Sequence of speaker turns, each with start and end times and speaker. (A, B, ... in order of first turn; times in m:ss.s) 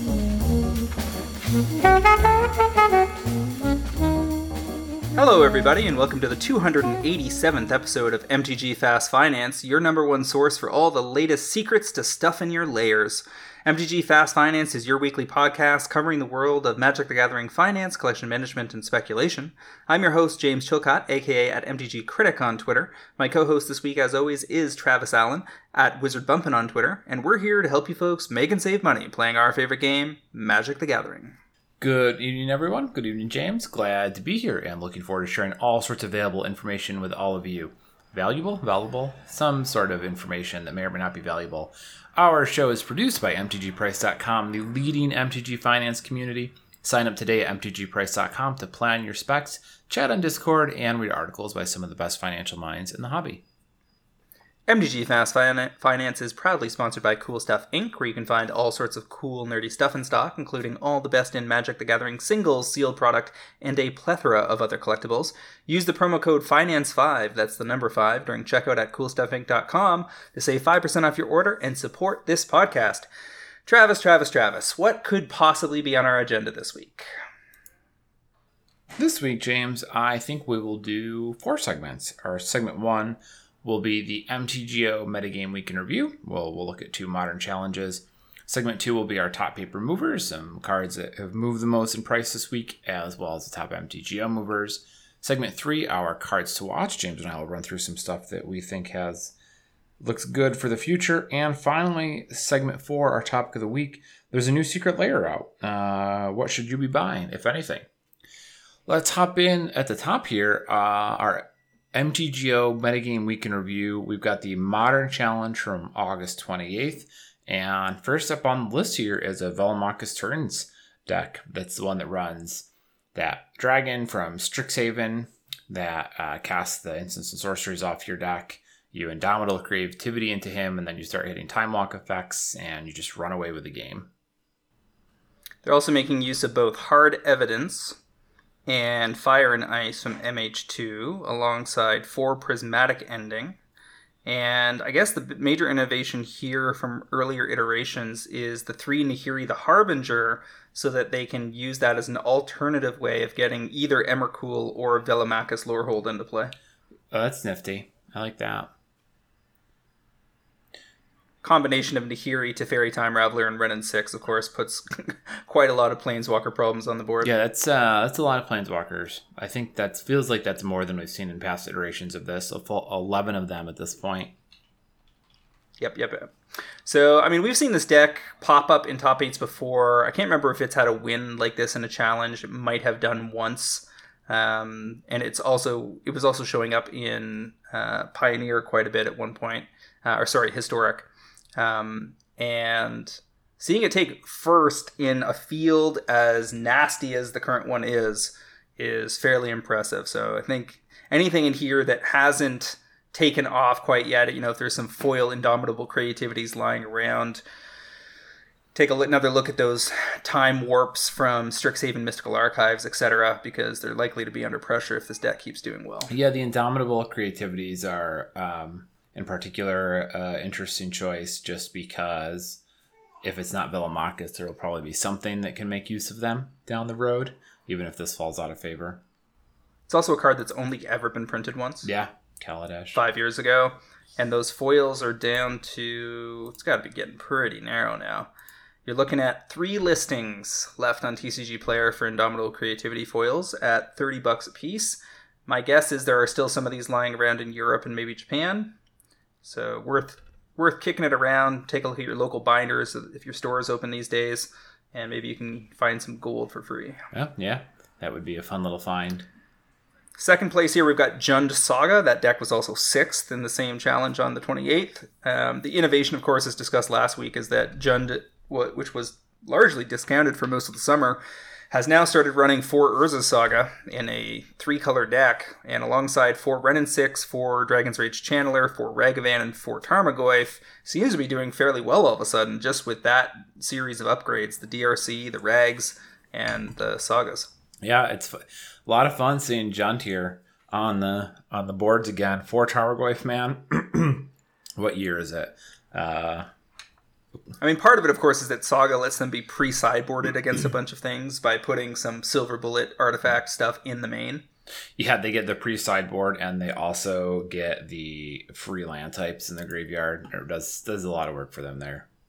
0:05.2-0:31.4 A
0:31.8-0:53.4 B
0:54.7-1:13.1 A
1:13.7-1:17.1 A
1:19.0-1:39.3 B
1:40.0-1:47.9 B
1:48.9-2:14.1 B
2:15.6-2:18.0 A
2:18.7-2:23.6 A
2:24.3-2:36.5 A
2:37.1-2:38.7 B
2:41.4-2:47.3 A
2:47.2-2:54.3 B
2:55.8-2:56.3 A
2:56.8-3:27.4 A
3:28.8-3:36.1 A
3:36.1-3:42.6 B
3:43.2-3:49.0 B
3:49.9-3:51.9 A
3:51.8-3:53.0 B
3:53.0-3:58.3 A
3:58.9-4:08.8 A
4:09.4-4:17.0 A
4:17.1-4:19.3 B
4:20.2-4:31.2 A
4:31.7-4:47.5 A
4:47.8-4:56.5 B
4:57.6-5:04.4 A
5:05.0-5:12.1 B